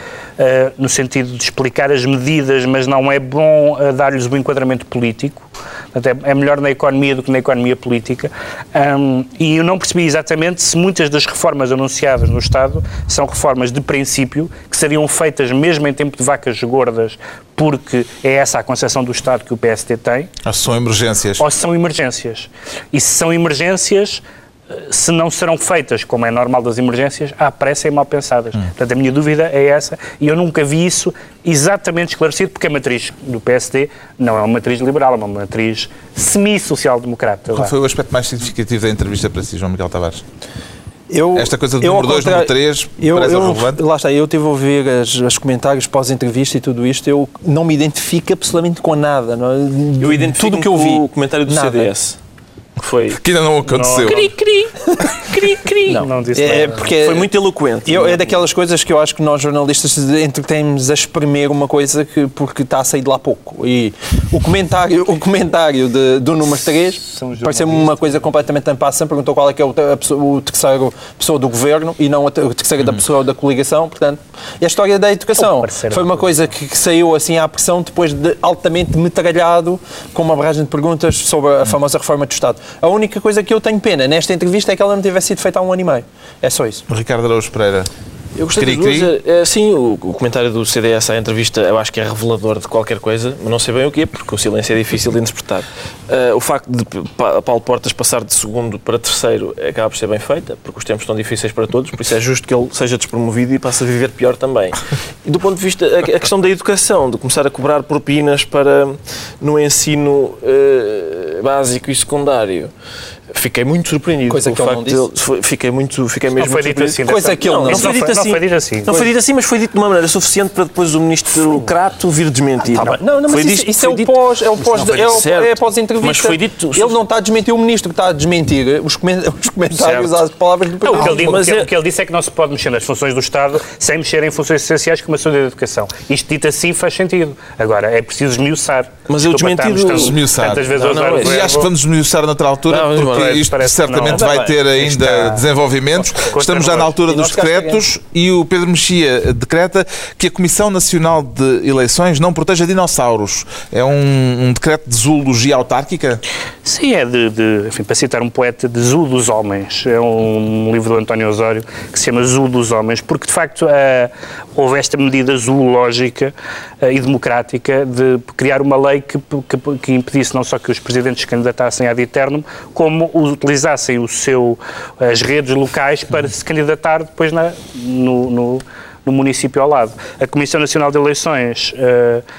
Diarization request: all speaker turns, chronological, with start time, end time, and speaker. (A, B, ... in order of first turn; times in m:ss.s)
0:00.4-0:20.3 A
0:20.4-0:21.4 B
0:21.4-0:37.7 A
0:37.5-0:40.2 B
0:41.1-0:51.9 C
0:41.3-0:43.8 B
0:50.0-0:52.2 D
0:52.8-0:53.2 D
0:53.1-0:54.3 B
0:53.6-0:54.7 A
0:54.0-0:54.7 D
0:54.8-0:55.1 C
0:55.3-0:56.9 A
0:55.3-0:55.8 D
0:55.9-0:57.3 C
0:56.9-0:58.4 D
0:57.8-1:26.8 C
1:07.1-1:08.0 A
1:15.3-1:16.3 A
1:26.9-1:27.9 B
1:28.4-1:52.7 D
1:28.5-1:29.1 B
1:53.3-2:07.0 D
1:54.3-1:55.0 C
1:56.4-1:59.0 A
1:57.0-1:57.9 C
2:02.6-2:11.4 C
2:09.7-2:10.2 A
2:10.8-2:21.7 A
2:10.9-2:11.7 D
2:19.1-2:21.6 D
2:19.9-2:36.2 B
2:22.7-2:23.5 D
2:23.1-2:25.4 A
2:24.1-2:24.8 C
2:26.0-2:26.9 A
2:26.9-2:27.8 C
2:36.6-3:02.2 A